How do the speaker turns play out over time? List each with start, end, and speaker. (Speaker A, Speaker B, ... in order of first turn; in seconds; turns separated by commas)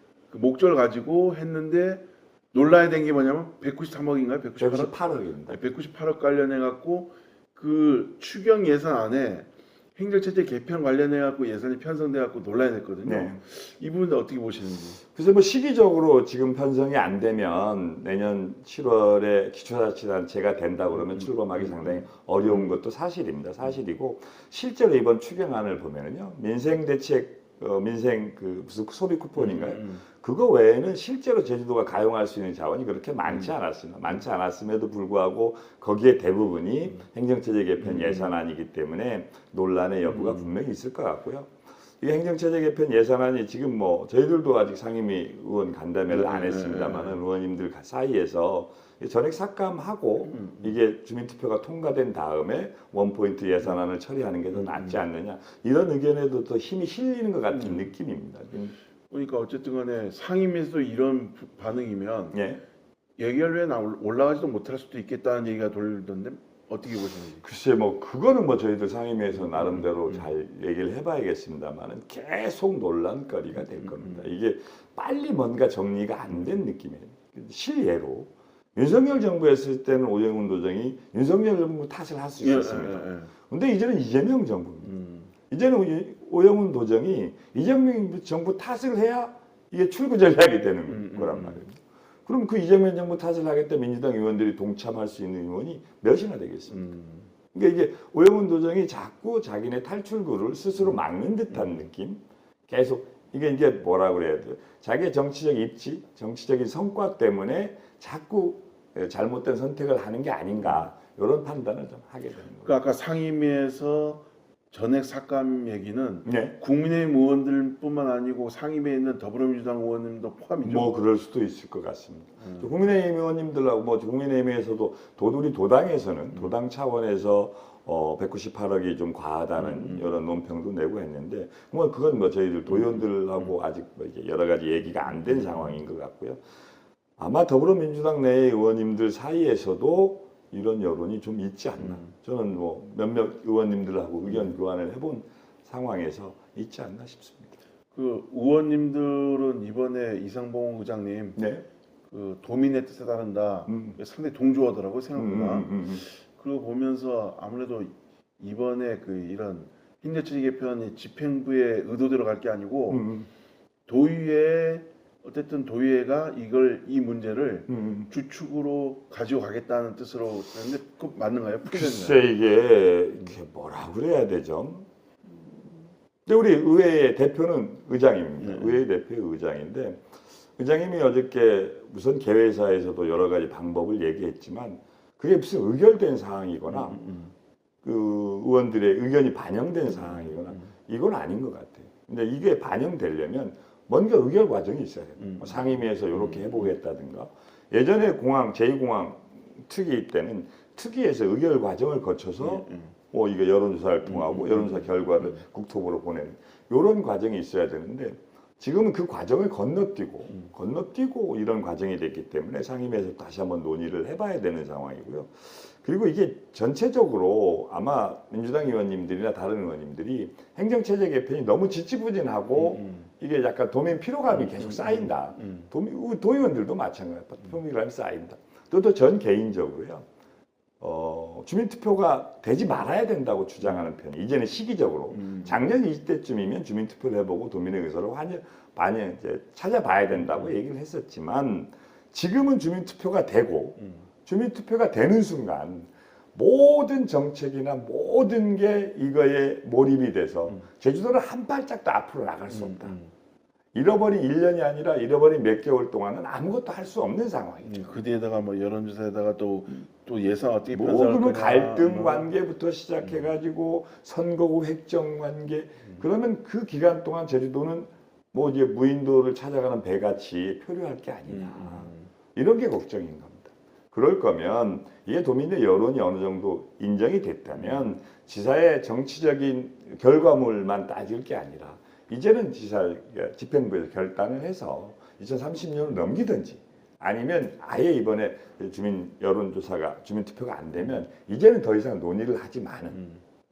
Speaker A: 0.3-15.0, Speaker B: 4.6-5.6, Speaker B: 13.0-13.4, Speaker B: 15.2-58.7, Speaker A: 20.9-22.7, Speaker A: 29.4-30.0, Speaker A: 33.2-33.5, Speaker A: 37.8-38.3, Speaker A: 40.0-40.5, Speaker A: 46.1-47.2, Speaker A: 50.2-50.8, Speaker A: 54.5-55.0, Speaker A: 57.5-57.9, Speaker A: 59.1-62.4, Speaker B: 62.3-62.6, Speaker A: 63.2-67.4, Speaker B: 67.4-84.9, Speaker A: 69.3-70.3, Speaker A: 73.6-74.3, Speaker A: 76.3-76.6, Speaker A: 82.4-83.3, Speaker A: 84.8-85.3, Speaker B: 85.5-96.8, Speaker A: 90.9-91.6, Speaker A: 96.7-97.3, Speaker B: 97.5-112.7, Speaker A: 101.5-101.8, Speaker A: 112.6-120.9, Speaker B: 116.2-116.5, Speaker B: 120.6-136.4, Speaker A: 122.4-122.7, Speaker A: 129.6-130.1, Speaker A: 132.7-133.5, Speaker A: 135.1-135.8, Speaker B: 137.2-147.6, Speaker A: 141.8-142.1, Speaker A: 144.3-144.5, Speaker A: 147.9-151.4, Speaker B: 151.3-151.6, Speaker A: 152.1-163.1, Speaker B: 153.7-153.9, Speaker B: 155.1-156.0, Speaker B: 162.9-163.3, Speaker A: 163.9-172.2, Speaker B: 167.7-168.1, Speaker B: 171.6-174.8, Speaker B: 176.2-180.0, Speaker A: 178.4-178.8, Speaker B: 180.6-187.0, Speaker A: 186.7-187.3, Speaker B: 187.8-230.1, Speaker A: 189.9-190.7, Speaker A: 195.2-196.7, Speaker A: 202.4-202.9, Speaker A: 204.1-205.3, Speaker A: 222.6-223.1, Speaker A: 224.3-225.7, Speaker B: 230.8-252.9, Speaker A: 235.1-235.6, Speaker A: 240.1-240.5, Speaker A: 243.8-244.1, Speaker A: 252.5-253.1, Speaker B: 253.7-257.9, Speaker A: 257.6-262.3, Speaker B: 260.7-293.0, Speaker A: 271.3-272.1, Speaker A: 277.6-277.8, Speaker A: 292.9-293.2